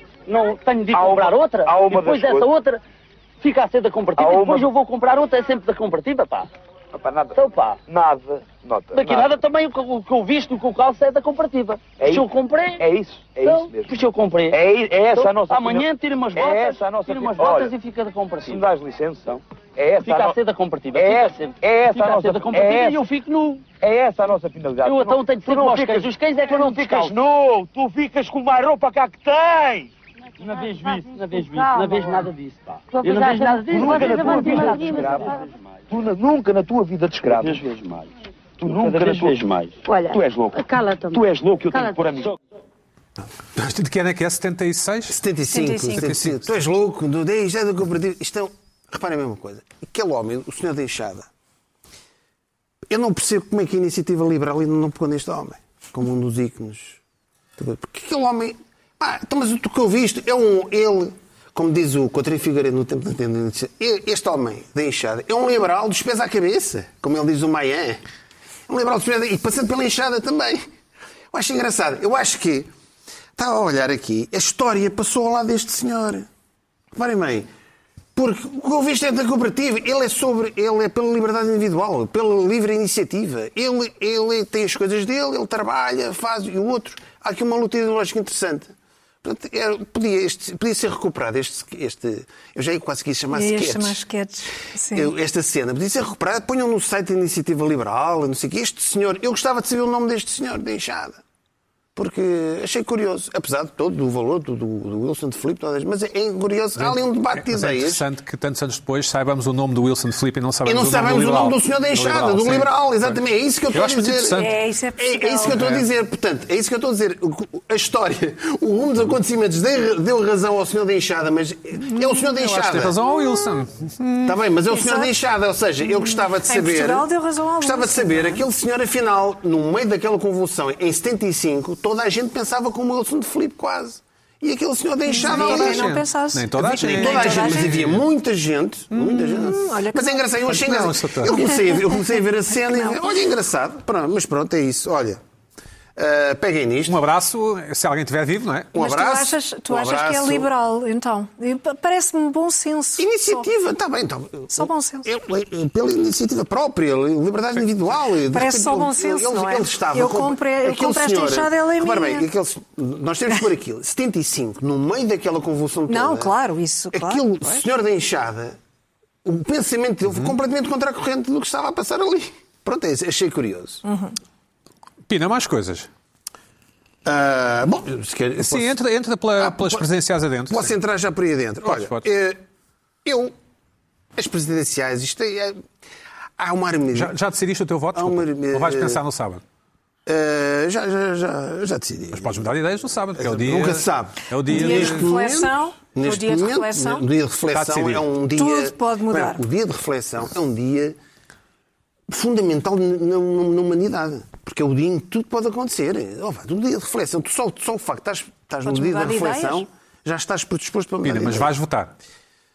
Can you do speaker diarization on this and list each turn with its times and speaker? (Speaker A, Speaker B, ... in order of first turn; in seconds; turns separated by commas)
Speaker A: 0.3-2.8, Speaker B: 0.9-2.5, Speaker A: 3.4-6.5, Speaker B: 4.2-4.7, Speaker B: 6.9-9.4, Speaker A: 7.3-7.8, Speaker A: 8.9-12.8, Speaker B: 12.0-12.3, Speaker B: 12.8-13.9, Speaker A: 13.4-18.6, Speaker B: 14.5-17.7, Speaker B: 18.4-20.4, Speaker A: 20.0-23.6, Speaker B: 20.9-23.1, Speaker B: 23.8-29.9, Speaker A: 24.8-27.2, Speaker A: 30.4-35.6, Speaker C: 30.7-32.3, Speaker C: 32.9-35.3, Speaker B: 33.3-37.7, Speaker A: 37.2-38.1, Speaker B: 38.6-39.5, Speaker A: 38.6-39.8, Speaker C: 39.9-42.1, Speaker B: 40.1-42.3, Speaker D: 43.6-45.2, Speaker E: 45.1-51.3, Speaker F: 45.5-46.2, Speaker D: 46.0-46.5, Speaker E: 52.9-57.0, Speaker E: 57.6-68.0, Speaker E: 68.7-70.6, Speaker E: 71.3-72.7, Speaker E: 73.3-76.3, Speaker E: 76.9-77.5, Speaker E: 78.1-88.7, Speaker E: 89.2-94.0, Speaker F: 93.3-95.1, Speaker E: 94.9-101.2, Speaker E: 101.9-108.0, Speaker D: 106.8-113.2, Speaker E: 110.6-123.0, Speaker D: 113.7-114.5, Speaker F: 114.3-115.7, Speaker D: 115.5-115.8, Speaker D: 121.9-124.2, Speaker E: 124.2-135.9, Speaker F: 124.7-125.1, Speaker F: 125.8-128.4, Speaker F: 135.1-137.8, Speaker D: 135.2-138.0, Speaker E: 136.7-145.2, Speaker F: 139.1-140.4, Speaker D: 140.4-141.3, Speaker F: 141.3-141.8, Speaker F: 142.7-142.9, Speaker E: 145.9-147.0, Speaker D: 146.9-148.8, Speaker E: 148.7-150.5, Speaker F: 148.8-153.4, Speaker E: 153.0-166.3, Speaker F: 154.5-155.1, Speaker F: 158.3-162.3, Speaker F: 165.9-167.7, Speaker E: 166.9-168.6, Speaker E: 169.2-173.8, Speaker D: 170.1-170.3, Speaker F: 173.8-174.1, Speaker D: 175.1-175.9, Speaker E: 177.0-178.7, Speaker D: 178.4-180.7, Speaker E: 179.4-179.8, Speaker E: 180.5-182.4, Speaker D: 181.6-182.1, Speaker E: 183.0-183.3, Speaker E: 184.1-185.6, Speaker E: 186.4-187.1, Speaker D: 186.9-189.4, Speaker E: 187.9-189.0, Speaker E: 190.1-192.5, Speaker D: 192.1-195.1, Speaker E: 193.1-200.9, Speaker F: 194.4-197.1, Speaker D: 197.5-198.1, Speaker F: 198.3-199.4, Speaker E: 202.1-211.5, Speaker F: 208.6-209.7, Speaker D: 211.0-211.9